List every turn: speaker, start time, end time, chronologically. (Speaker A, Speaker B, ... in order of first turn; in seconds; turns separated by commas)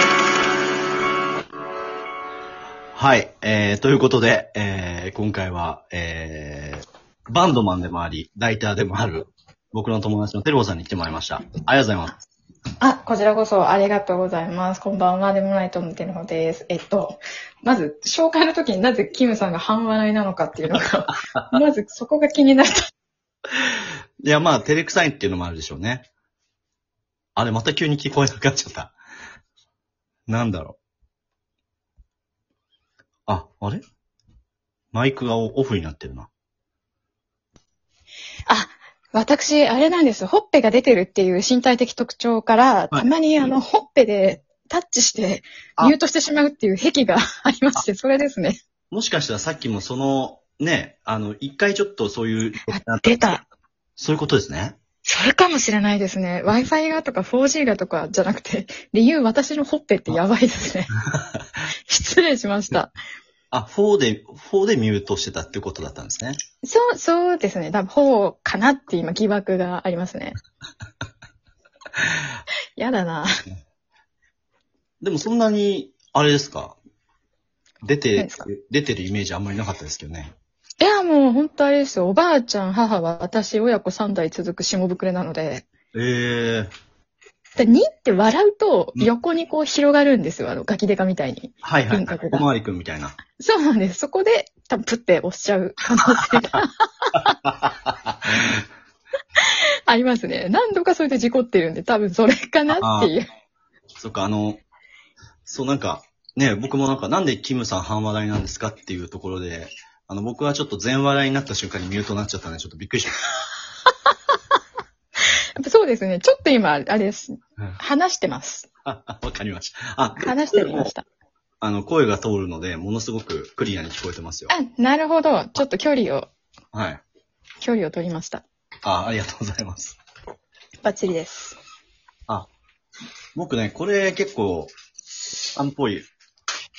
Speaker A: 2.9-12.2, Speaker B: 12.8-22.8, Speaker A: 21.3-21.6, Speaker A: 24.2-26.1, Speaker A: 27.4-28.9, Speaker A: 30.3-30.8, Speaker A: 33.3-33.8, Speaker A: 34.9-36.3, Speaker B: 38.5-48.6, Speaker A: 48.9-53.2, Speaker B: 52.7-53.4, Speaker A: 54.0-54.8, Speaker B: 55.0-60.9, Speaker B: 61.9-62.9, Speaker A: 63.5-66.4, Speaker B: 66.6-70.4, Speaker B: 72.8-73.3, Speaker A: 75.0-76.8, Speaker A: 77.8-80.3, Speaker B: 78.2-78.5, Speaker B: 80.8-85.7, Speaker A: 85.9-86.7, Speaker B: 87.6-92.5, Speaker A: 91.6-93.2, Speaker B: 93.4-97.3, Speaker A: 96.3-96.5, Speaker A: 97.4-98.6, Speaker B: 99.4-103.2, Speaker A: 102.7-103.1, Speaker A: 104.0-104.6, Speaker A: 105.5-113.2, Speaker B: 115.6-118.7, Speaker A: 118.8-120.9, Speaker B: 120.2-121.0, Speaker A: 121.6-124.5, Speaker B: 124.5-126.3, Speaker A: 126.7-127.0, Speaker B: 127.6-128.4, Speaker A: 128.8-130.0, Speaker B: 130.8-131.6, Speaker A: 133.3-134.7, Speaker A: 135.5-136.1